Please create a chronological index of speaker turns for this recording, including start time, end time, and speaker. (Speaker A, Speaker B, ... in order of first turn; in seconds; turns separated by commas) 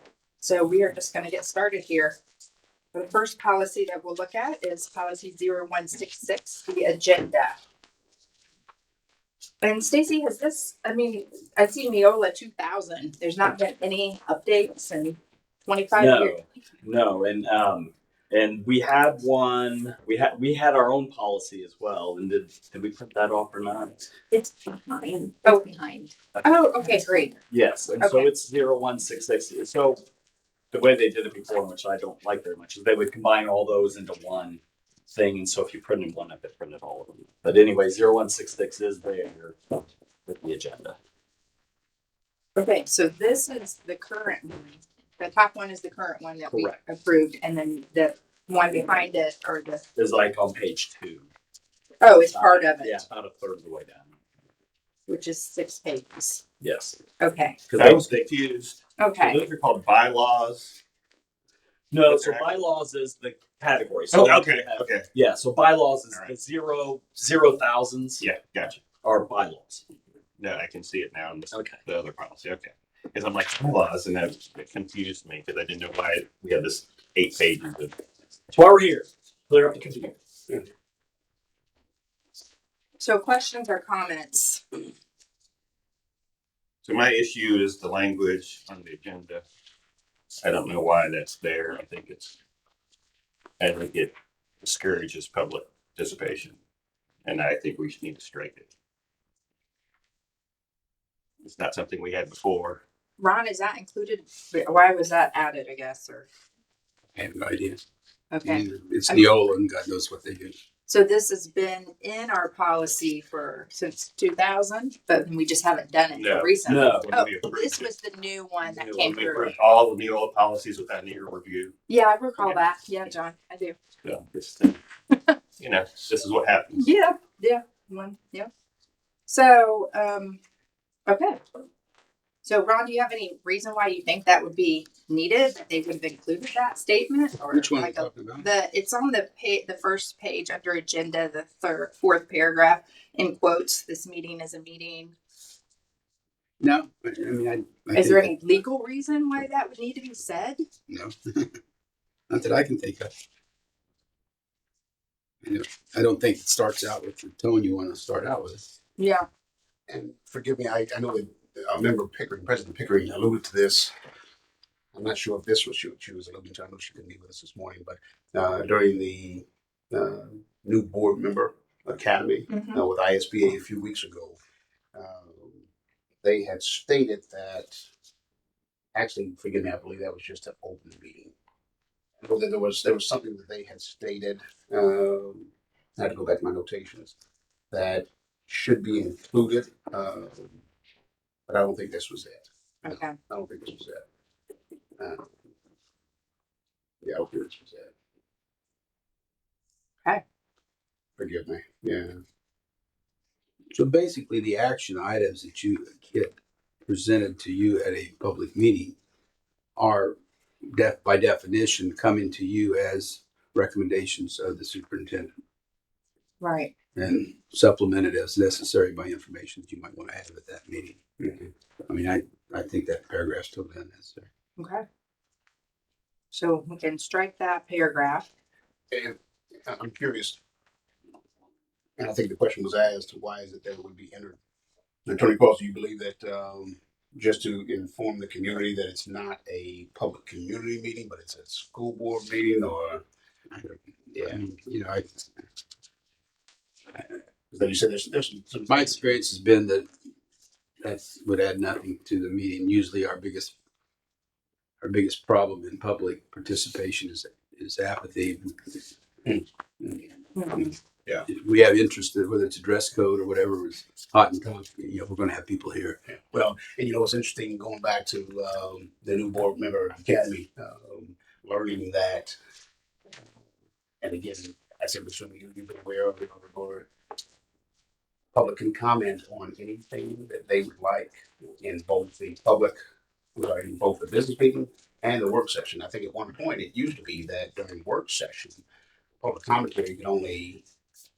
Speaker A: 0.4-2.2, Speaker A: 2.9-7.6, Speaker A: 9.6-16.4, Speaker B: 15.9-24.1, Speaker A: 24.3-27.4, Speaker B: 27.5-30.0, Speaker A: 28.0-28.3, Speaker B: 30.7-41.0, Speaker A: 42.5-49.8, Speaker B: 46.5-46.8, Speaker B: 49.9-51.3, Speaker A: 52.0-53.0, Speaker B: 52.3-54.1, Speaker A: 55.1-56.4, Speaker B: 56.6-57.0, Speaker A: 57.2-57.6, Speaker B: 57.7-58.1, Speaker C: 57.7-60.8, Speaker A: 59.0-59.4, Speaker B: 61.9-68.2, Speaker C: 62.0-62.6, Speaker C: 64.1-65.1, Speaker C: 68.2-68.9, Speaker B: 69.0-69.8, Speaker C: 70.4-77.9, Speaker B: 71.5-71.8, Speaker B: 78.5-80.2, Speaker A: 83.0-84.6, Speaker C: 86.8-89.4, Speaker C: 90.4-92.3, Speaker C: 93.6-96.6, Speaker C: 97.2-98.7, Speaker C: 101.4-102.8, Speaker A: 103.2-106.3, Speaker D: 107.1-107.8, Speaker A: 108.3-109.3, Speaker D: 108.4-110.5, Speaker A: 110.9-119.5, Speaker C: 116.1-117.9, Speaker B: 116.7-117.1, Speaker B: 118.6-119.4, Speaker C: 119.0-121.8, Speaker A: 121.9-123.8, Speaker C: 124.0-124.8, Speaker C: 125.6-126.8, Speaker A: 126.7-128.5, Speaker A: 129.3-130.4, Speaker A: 131.1-131.4, Speaker A: 132.4-145.1, Speaker D: 137.5-138.5, Speaker D: 146.6-148.5, Speaker A: 147.9-150.6, Speaker D: 150.9-151.6, Speaker D: 152.3-153.1, Speaker D: 155.4-158.6, Speaker A: 159.0-159.2, Speaker E: 159.9-163.9, Speaker E: 164.9-174.4, Speaker A: 172.5-172.8, Speaker E: 174.9-175.7, Speaker E: 176.2-177.8, Speaker E: 178.9-181.3, Speaker E: 182.2-187.1, Speaker E: 187.7-190.6, Speaker E: 191.5-194.0, Speaker A: 192.8-193.2, Speaker E: 195.0-195.3, Speaker E: 197.0-197.9, Speaker E: 201.2-202.2, Speaker D: 203.7-208.9, Speaker D: 209.8-210.2, Speaker D: 210.7-215.3, Speaker A: 216.4-216.7, Speaker D: 216.9-221.0, Speaker D: 221.8-224.3, Speaker A: 224.6-224.8, Speaker A: 226.3-228.3, Speaker E: 228.9-230.4, Speaker E: 232.0-234.4, Speaker E: 235.1-243.0, Speaker D: 243.5-245.2, Speaker E: 244.1-244.4, Speaker E: 247.5-249.0, Speaker D: 248.7-249.9, Speaker D: 250.8-253.5, Speaker D: 254.8-258.8, Speaker A: 260.3-260.7, Speaker D: 261.3-266.1, Speaker E: 266.3-272.3, Speaker E: 274.0-276.9, Speaker E: 278.3-282.8, Speaker E: 283.3-288.6, Speaker E: 289.2-290.6